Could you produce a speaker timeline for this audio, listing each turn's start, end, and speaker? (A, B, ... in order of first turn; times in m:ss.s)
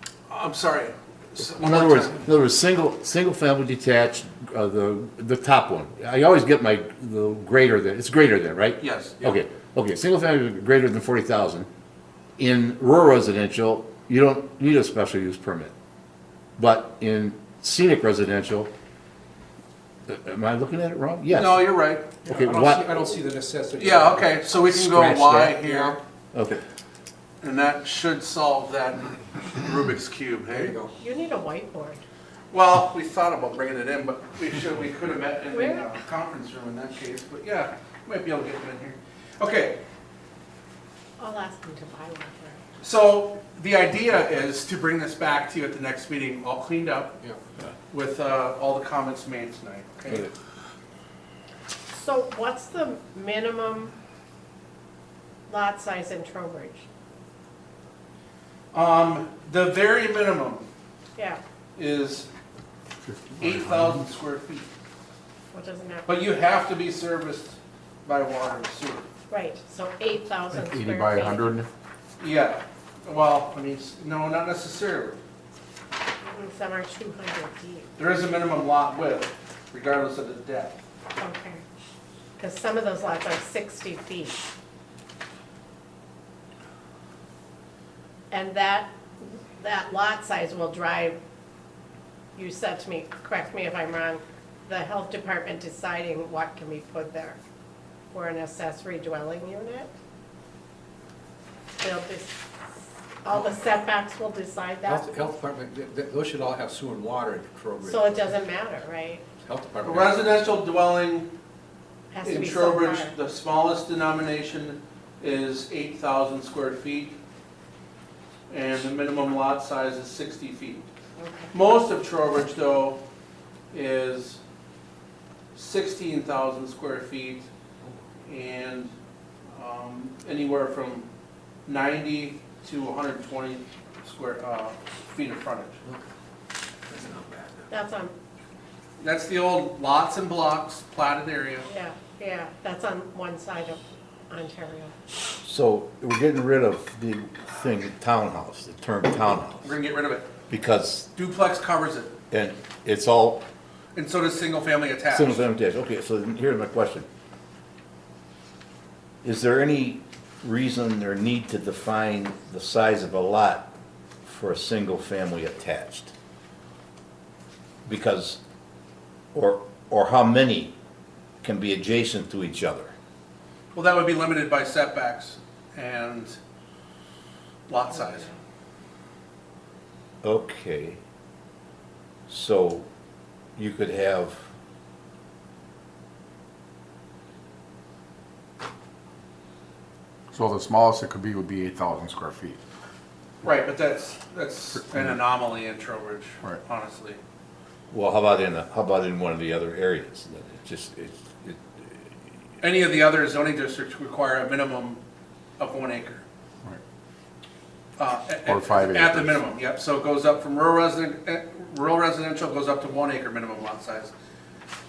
0:00.3-0:02.2 A
0:01.6-0:11.7 B
0:08.8-0:09.4 A
0:12.4-0:15.7 B
0:16.6-0:18.7 B
0:20.1-0:21.7 B
0:21.3-0:22.8 A
0:22.2-0:22.8 B
0:22.2-0:24.4 C
0:23.8-0:26.0 A
0:24.7-0:25.6 B
0:25.6-0:26.0 C
0:26.3-0:26.6 B
0:27.4-0:30.8 A
0:30.5-0:31.0 C
0:31.0-0:32.0 D
0:32.5-0:39.8 A
0:35.5-0:35.9 D
0:41.2-0:42.6 D
0:42.8-0:47.2 A
0:47.9-0:50.3 A
0:51.9-0:53.9 D
0:55.5-0:56.8 D
0:58.7-1:00.7 A
1:01.2-1:01.4 D
1:01.8-1:02.3 A
1:03.0-1:04.0 E
1:03.4-1:04.7 A
1:05.5-1:06.1 D
1:06.0-1:09.1 A
1:09.3-1:11.5 D
1:10.5-1:11.7 E
1:12.2-1:15.2 A
1:16.2-1:17.9 D
1:18.0-1:20.8 A
1:21.2-1:21.6 D
1:22.4-1:24.4 D
1:28.3-1:31.2 D
1:32.4-1:37.4 D
1:38.1-1:39.9 D
1:41.8-1:42.4 D
1:43.2-1:45.2 D
1:44.8-1:48.4 C
1:47.8-1:49.2 D
1:49.4-1:50.5 C
1:49.8-1:51.3 A
1:52.1-1:53.1 D
1:52.2-1:57.2 A
1:58.5-2:00.8 A
2:01.2-2:01.5 D
2:01.5-2:03.0 A
2:03.7-2:04.4 A
2:05.5-2:07.5 A
2:08.3-2:08.9 A
2:09.5-2:11.1 A
2:11.7-2:15.8 A
2:16.9-2:17.7 C
2:17.7-2:18.1 D
2:19.0-2:21.7 A
2:21.7-2:24.9 D
2:25.4-2:29.7 B
2:29.6-2:30.3 A
2:30.5-2:31.1 B
2:31.2-2:32.2 A
2:32.3-2:33.4 B
2:33.9-2:35.4 A
2:35.1-2:37.1 B
2:39.2-2:43.7 B
2:44.2-2:46.1 B
2:47.8-2:48.4 B
2:49.3-2:50.7 B
2:51.4-2:52.9 B
2:53.7-2:56.4 A
2:57.7-2:58.3 A
3:00.2-3:01.0 B
3:02.3-3:02.8 B
3:03.6-3:04.4 B
3:10.3-3:12.6 E
3:13.4-3:17.2 A
3:17.9-3:22.1 B
3:22.6-3:25.0 A
3:25.6-3:26.2 A
3:28.0-3:34.1 A
3:28.4-3:29.4 E